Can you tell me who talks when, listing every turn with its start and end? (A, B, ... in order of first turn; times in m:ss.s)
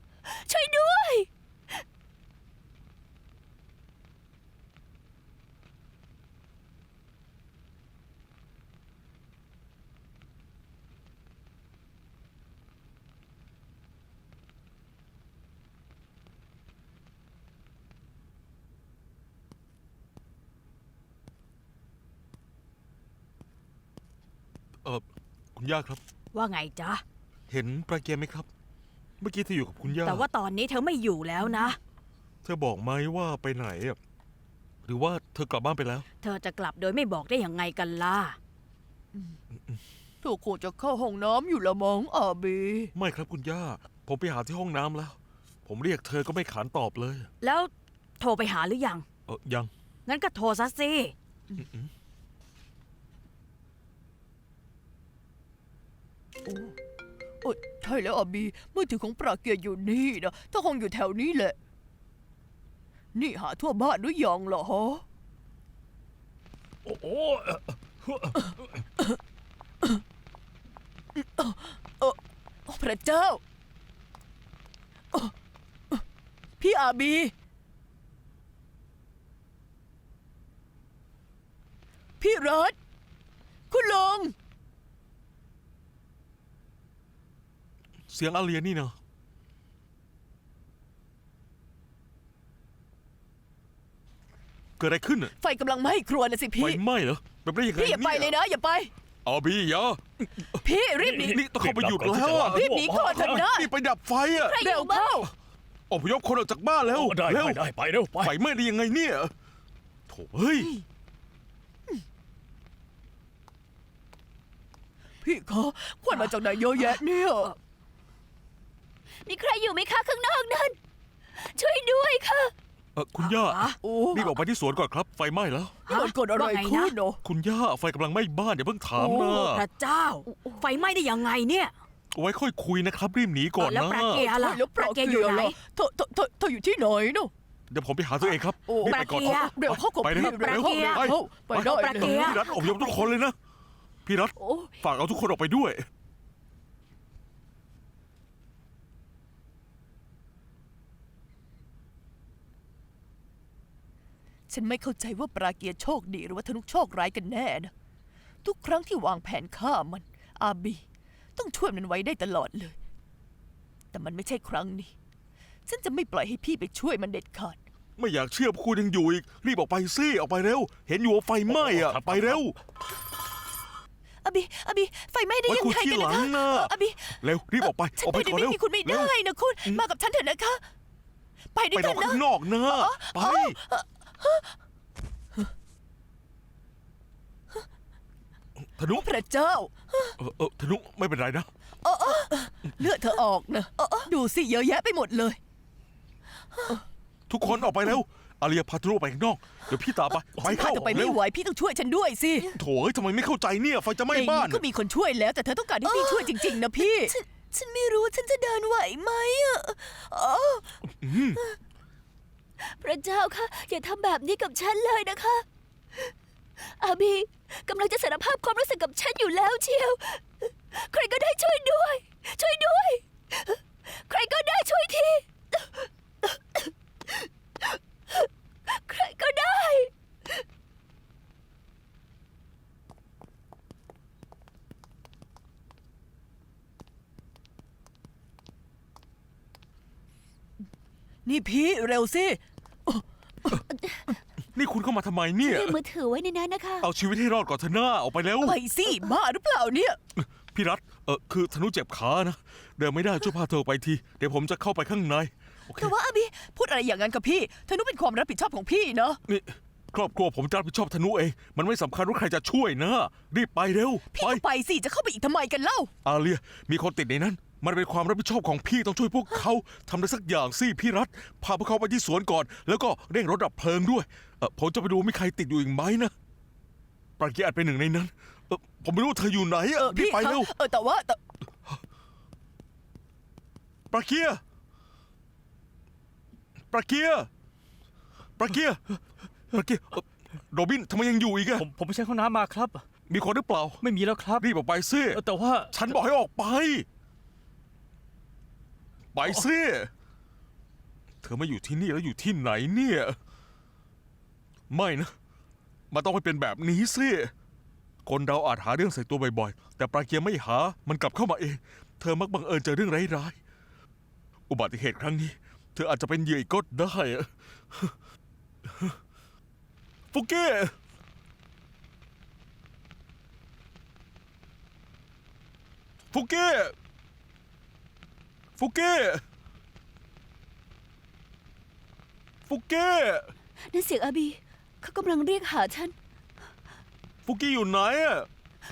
0:00.2-0:01.3 A
0:24.8-0:26.0 B
0:26.3-0:27.0 C
0:27.5-0:28.5 B
0:29.2-0:30.3 B
0:30.0-0:31.8 C
0:31.5-0:31.7 D
0:32.4-0:34.0 B
0:34.8-0:36.0 B
0:36.2-0:38.4 C
0:40.2-0:42.9 D
0:42.9-0:47.3 B
0:47.4-0:49.0 C
0:49.3-0:49.7 B
0:50.0-0:51.1 C
0:51.6-0:51.9 B
0:56.4-0:56.7 D
0:57.4-1:01.6 D
1:03.1-1:05.0 D
1:06.8-1:08.8 E
1:11.2-1:13.4 D
1:16.6-1:17.3 D
1:22.2-1:22.8 D
1:23.7-1:24.3 D
1:28.1-1:28.9 B
1:34.8-1:35.3 B
1:35.4-1:36.8 D
1:36.6-1:38.3 B
1:37.7-1:38.9 D
1:39.2-1:40.6 B
1:40.6-1:41.4 D
1:41.0-1:43.5 E
1:41.2-1:44.6 B
1:42.5-1:43.7 D
1:44.4-1:45.2 A
1:44.6-1:45.2 C
1:44.6-1:45.3 D
1:45.9-1:47.6 B
1:46.8-1:48.3 E
1:48.2-1:49.3 B
1:50.1-1:50.8 B
1:55.2-1:57.5 D
1:59.2-2:00.8 A
2:01.3-2:02.5 A
2:02.9-2:05.8 B
2:03.2-2:03.8 C
2:03.8-2:04.3 D
2:05.9-2:06.9 C
2:05.9-2:07.2 D
2:07.2-2:09.6 B
2:09.0-2:11.7 C
2:10.3-2:10.6 A
2:12.1-2:14.2 B
2:13.6-2:15.6 C
2:14.1-2:17.3 D
2:17.7-2:23.3 B
2:18.7-2:22.9 D
2:18.8-2:22.8 C
2:24.0-2:25.8 B
2:24.4-2:24.7 A
2:34.5-2:37.7 D
2:38.4-2:40.8 D
2:41.4-2:42.8 D
2:43.9-2:44.9 D
2:45.7-2:47.6 D
2:48.0-2:52.6 B
2:51.5-2:52.4 E
2:54.2-2:57.2 D
2:55.4-2:59.1 B
2:58.0-3:00.6 D
3:01.5-3:04.5 D
3:01.7-3:03.6 B
3:08.7-3:09.1 B
3:08.9-3:10.2 D
3:10.2-3:11.5 B
3:11.8-3:15.4 D
3:16.5-3:16.8 D
3:17.3-3:21.2 B
3:20.3-3:22.6 D
3:22.5-3:24.6 B
3:24.1-3:30.8 D
3:25.8-3:27.2 A
3:31.0-3:31.4 B
3:32.6-3:50.4 A
4:01.2-4:03.6 D
4:03.7-4:04.1 A
4:04.5-4:05.8 B
4:05.4-4:06.9 A
4:06.8-4:08.6 B
4:08.4-4:10.0 D
4:10.2-4:15.9 B
4:15.8-4:19.2 D
4:19.3-4:24.4 B
4:24.1-4:25.9 D
4:26.0-4:36.1 B
4:37.2-4:40.5 B
4:39.8-4:41.2 D
4:43.9-4:44.4 B
4:46.7-4:47.3 B
4:48.4-4:51.7 B
4:51.6-4:52.8 E
4:53.1-4:53.8 B
4:53.8-4:54.4 E
4:54.4-4:56.8 B
4:55.1-4:55.9 E
4:59.1-4:59.9 B
5:01.2-5:03.2 B
5:04.7-5:05.1 B
5:05.9-5:07.3 B
5:08.0-5:13.4 B
5:14.5-5:17.9 B
5:18.6-5:19.0 B
5:20.1-5:20.7 B
5:26.1-5:26.7 B
5:28.6-5:29.2 B
5:32.4-5:33.3 B
5:33.7-5:35.9 A
5:37.2-5:38.3 B